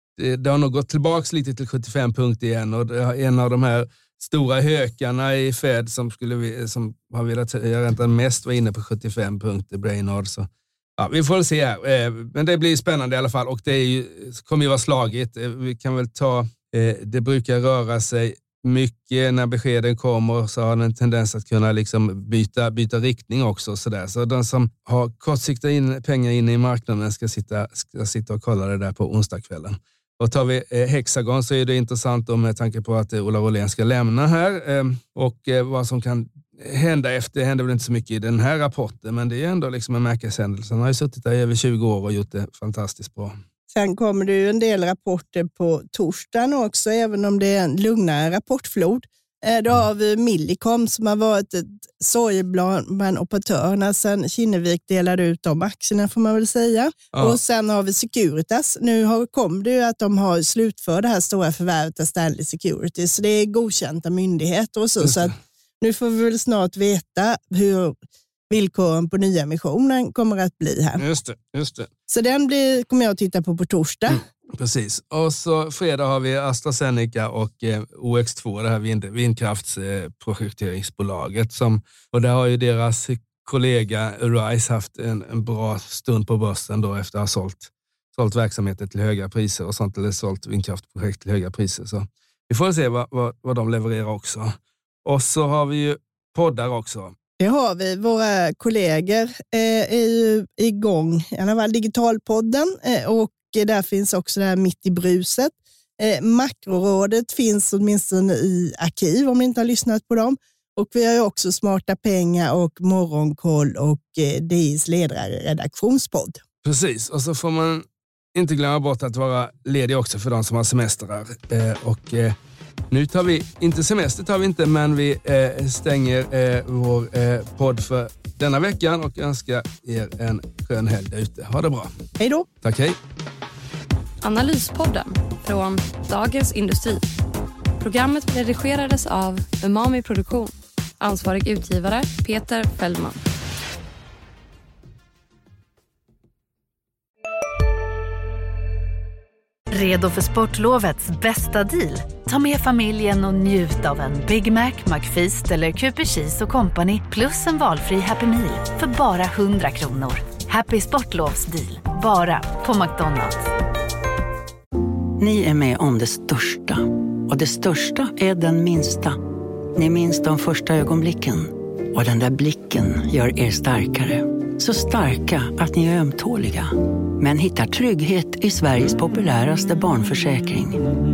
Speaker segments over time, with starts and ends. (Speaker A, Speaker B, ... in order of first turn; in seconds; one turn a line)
Speaker A: 0.2-43.4
Speaker B: 43.7-68.0
Speaker A: 57.1-57.4
Speaker A: 65.0-65.3
Speaker B: 68.5-71.0
Speaker A: 71.0-71.9
Speaker B: 72.1-74.2
Speaker A: 74.1-97.2
Speaker B: 97.4-116.4
Speaker A: 116.7-122.4
Speaker A: 122.9-131.9
Speaker B: 132.2-132.5
Speaker A: 132.6-133.0
Speaker C: 134.2-137.1
Speaker C: 137.8-143.2
Speaker D: 149.7-163.4
Speaker E: 165.2-169.2
Speaker E: 169.8-180.8